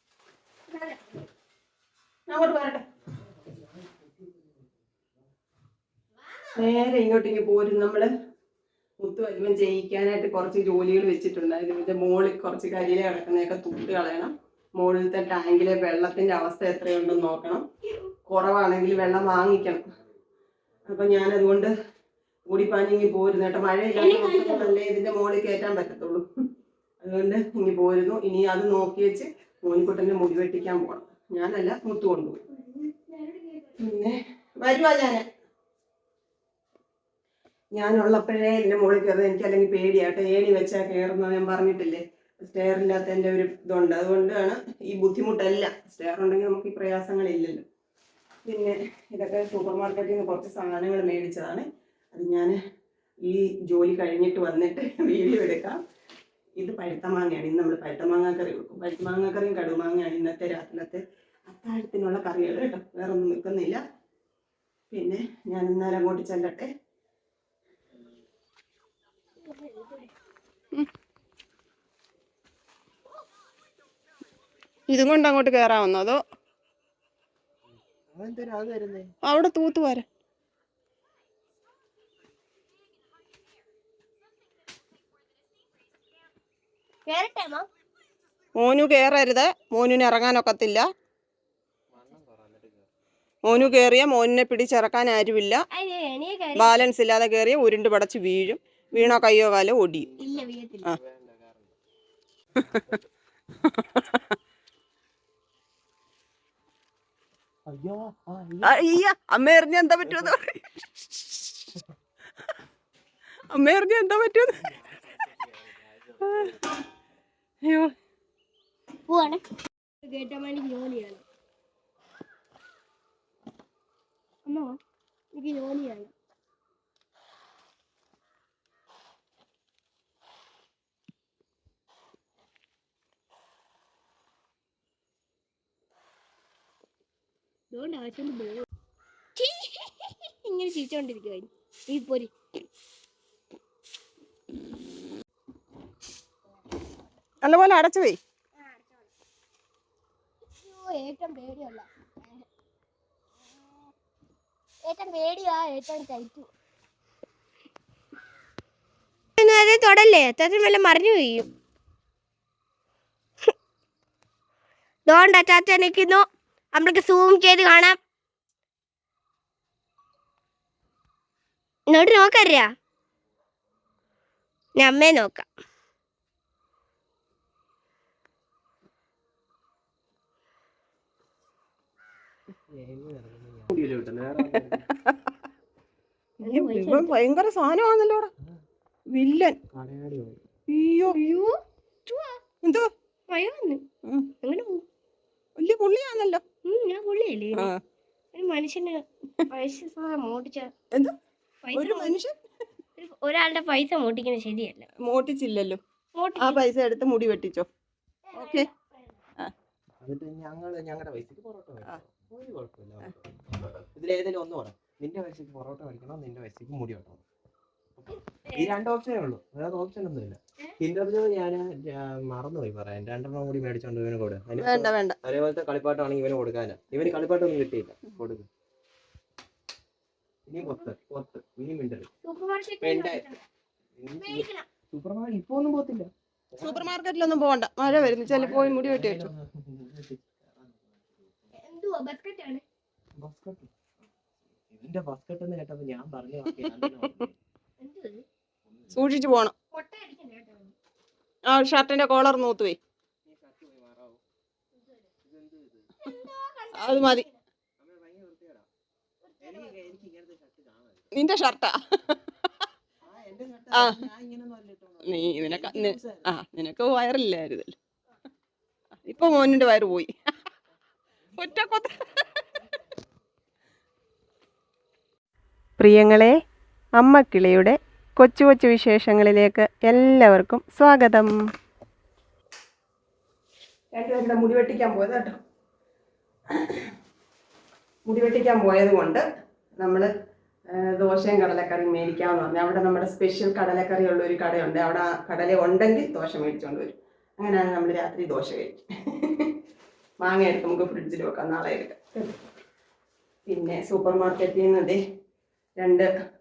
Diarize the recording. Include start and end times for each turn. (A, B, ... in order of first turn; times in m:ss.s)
0:00.7-0:01.2 A
0:02.3-0:02.8 B
0:03.4-0:04.7 C
0:06.6-0:08.1 B
0:09.0-0:17.6 B
0:18.3-0:19.8 B
0:20.9-0:21.7 B
0:22.5-0:26.2 B
0:24.0-0:24.7 A
0:27.0-0:32.4 B
0:32.5-0:33.7 A
0:33.8-0:35.2 B
0:37.7-0:47.6 B
0:48.4-0:52.5 B
0:53.2-0:55.8 B
0:56.6-1:03.8 B
1:04.9-1:06.7 B
1:09.5-1:10.1 A
1:14.9-1:16.2 B
1:18.1-1:19.1 C
1:19.2-1:20.0 B
1:27.1-1:27.7 A
1:28.6-1:30.8 B
1:31.9-1:32.9 C
1:33.4-1:35.6 B
1:33.5-1:33.8 C
1:35.7-1:36.7 A
1:36.6-1:40.1 B
1:40.2-1:41.8 C
1:40.2-1:40.9 A
1:42.7-1:43.0 C
1:43.6-1:44.2 B
1:47.7-1:48.8 C
1:48.6-1:51.5 B
1:50.0-1:50.3 C
1:53.5-1:54.5 B
1:54.7-1:56.6 C
1:57.6-1:57.9 B
1:59.1-1:59.4 A
2:00.0-2:01.2 A
2:04.4-2:04.8 A
2:05.3-2:06.1 A
2:17.7-2:18.6 A
2:19.4-2:22.3 A
2:27.4-2:28.2 B
2:28.6-2:29.0 A
2:30.6-2:31.8 A
2:34.8-2:36.5 A
2:39.4-2:41.5 A
2:45.1-2:48.0 A
2:51.9-2:52.7 A
2:54.8-2:55.5 A
3:02.7-3:04.9 C
3:04.5-3:05.1 B
3:06.4-3:08.3 B
3:06.4-3:07.2 A
3:09.1-3:09.6 B
3:09.7-3:10.4 C
3:10.7-3:11.2 B
3:11.1-3:11.6 A
3:12.1-3:12.4 A
3:12.6-3:12.9 B
3:13.3-3:13.8 A
3:14.4-3:14.8 A
3:15.6-3:16.4 B
3:16.6-3:17.7 A
3:17.5-3:17.8 B
3:18.3-3:20.7 A
3:21.6-3:22.2 A
3:21.7-3:22.3 B
3:23.0-3:24.8 A
3:25.0-3:25.8 B
3:26.2-3:26.6 A
3:26.4-3:27.7 B
3:28.3-3:29.2 A
3:28.3-3:28.7 B
3:30.0-3:37.2 C
3:38.0-3:48.5 C
3:44.6-3:45.2 B
3:50.5-3:52.1 C
3:52.2-3:53.4 A
3:52.8-3:53.2 C
3:54.0-3:55.6 C
3:54.2-3:54.7 A
3:55.6-3:56.0 B
3:56.5-3:56.9 C
3:56.6-3:59.3 B
3:57.8-4:01.6 C
4:01.6-4:02.6 A
4:03.2-4:03.7 C
4:04.7-4:07.4 C
4:07.8-4:08.2 A
4:08.7-4:09.0 C
4:08.9-4:09.5 B
4:09.7-4:10.7 A
4:11.5-4:12.8 B
4:13.2-4:14.2 C
4:15.2-4:15.9 C
4:16.0-4:17.4 A
4:16.7-4:17.3 B
4:17.8-4:18.7 C
4:19.2-4:19.8 A
4:19.4-4:21.1 C
4:21.1-4:22.1 B
4:23.0-4:26.3 C
4:23.7-4:24.0 B
4:25.0-4:27.7 B
4:29.1-4:30.1 B
4:31.3-4:31.9 C
4:31.4-4:31.9 B
4:35.8-4:36.3 B
4:37.0-4:41.4 B
4:43.9-4:45.3 B
4:48.1-4:49.2 B
4:49.8-4:50.1 B
4:50.8-4:59.5 B
5:00.2-5:02.3 B
5:03.5-5:05.0 B
5:05.8-5:06.1 B